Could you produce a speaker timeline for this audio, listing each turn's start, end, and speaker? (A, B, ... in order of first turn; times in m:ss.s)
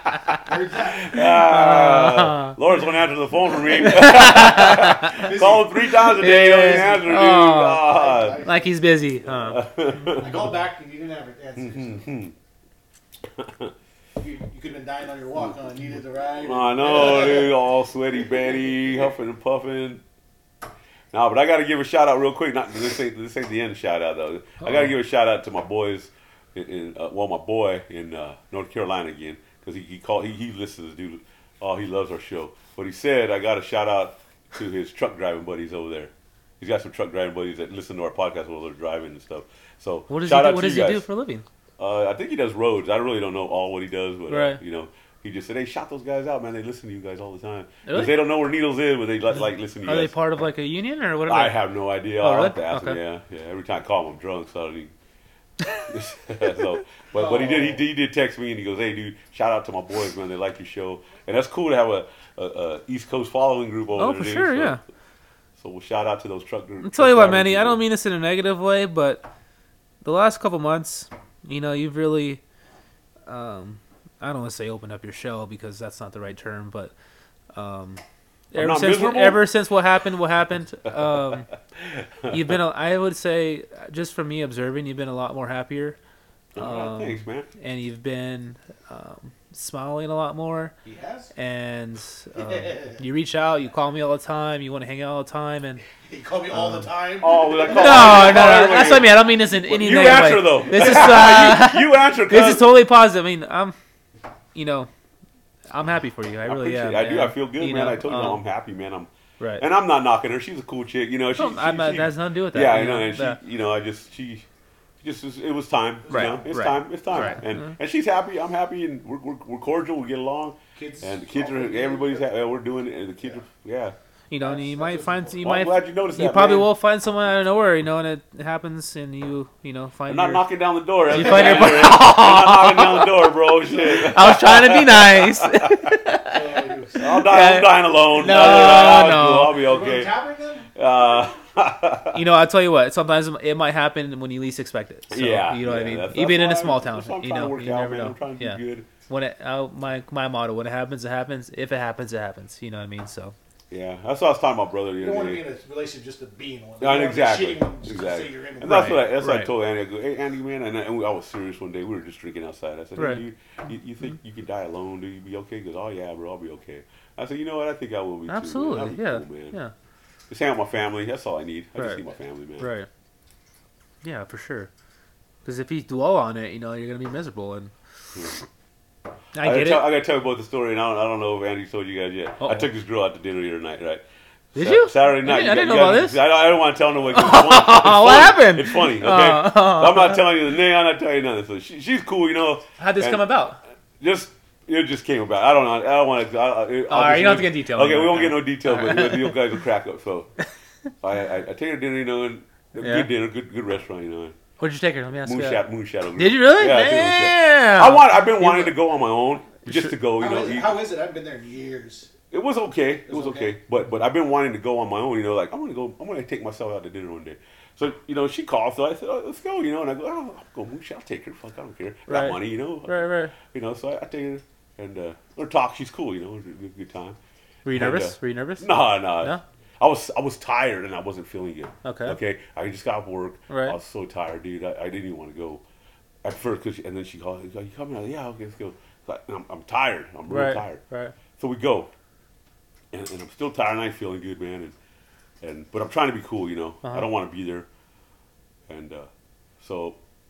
0:00.4-0:01.2 A
0:00.9-0:08.4 B
0:01.2-0:02.6 C
0:03.8-0:05.2 C
0:04.0-0:07.2 A
0:06.1-0:07.9 C
0:07.8-0:08.7 A
0:08.4-0:09.7 C
0:09.4-0:10.5 B
0:10.1-0:12.1 A
0:11.6-0:12.3 B
0:13.3-0:13.7 B
0:14.2-0:17.6 A
0:16.4-0:20.0 B
0:21.1-0:41.1 B
0:24.6-0:24.9 C
0:40.1-0:41.4 C
0:41.8-0:50.2 B
0:44.3-0:44.6 C
0:47.9-0:48.2 C
0:49.8-0:51.7 C
0:51.3-0:54.9 B
0:52.2-0:53.0 C
0:55.8-1:04.8 B
0:57.1-0:57.8 A
1:04.0-1:04.8 C
1:05.6-1:07.8 B
1:06.8-1:09.3 C
1:10.0-1:12.4 C
1:13.3-1:16.9 C
1:17.5-1:21.5 C
1:18.6-1:19.5 B
1:21.8-1:22.6 B
1:22.3-1:26.0 C
1:26.6-1:27.5 B
1:26.6-1:30.7 C
1:30.8-1:31.3 A
1:31.4-1:35.8 C
1:32.4-1:33.0 A
1:36.0-1:38.9 A
1:36.5-1:36.9 C
1:37.2-1:42.7 B
1:37.7-1:43.8 C
1:44.6-1:44.9 C
1:45.7-1:48.4 C
1:46.5-1:54.4 B
1:51.4-1:53.4 C
1:55.0-2:04.0 B
1:56.0-1:56.6 A
1:56.1-1:57.7 C
1:57.1-1:57.4 A
2:00.8-2:02.3 A
2:04.3-2:10.4 C
2:04.4-2:05.4 A
2:05.4-2:06.7 B
2:10.1-2:16.0 B
2:11.1-2:13.2 C
2:11.1-2:12.0 A
2:13.6-2:14.2 A
2:13.9-2:19.6 C
2:16.3-2:17.1 A
2:17.0-2:20.1 B
2:18.3-2:20.7 A
2:20.8-2:22.2 B
2:22.1-2:33.4 C
2:25.1-2:28.9 B
2:33.7-2:35.4 B
2:35.0-2:39.1 A
2:36.8-2:49.6 B
2:38.6-2:39.5 C
2:43.0-2:43.2 C
2:48.3-2:49.7 C
2:50.3-2:52.7 B
2:51.8-2:52.0 C
2:52.6-2:52.9 C
2:54.0-2:54.7 C
2:55.4-2:57.7 C
2:59.4-2:59.9 C
2:59.4-3:04.0 B
3:02.4-3:02.7 C
3:04.6-3:06.2 C
3:04.6-3:13.3 B
3:07.1-3:10.3 C
3:12.8-3:13.6 C
3:14.0-3:20.3 B
3:16.9-3:19.4 C
3:21.0-3:24.4 B
3:22.8-3:23.1 C
3:24.6-3:25.6 C
3:25.2-3:30.8 B
3:26.2-3:28.8 C
3:29.6-3:30.0 C
3:30.2-3:32.1 A
3:32.3-3:47.2 B
3:33.1-3:33.6 A
3:42.1-3:43.3 C
3:47.6-3:49.4 C
3:47.7-3:55.6 B
3:51.8-3:52.2 C
3:53.5-3:53.8 C
3:56.2-4:00.8 B
4:00.3-4:01.2 C
4:01.4-4:01.9 B
4:02.9-4:04.8 B
4:05.4-4:07.7 B
4:08.7-4:09.1 B
4:09.6-4:10.0 B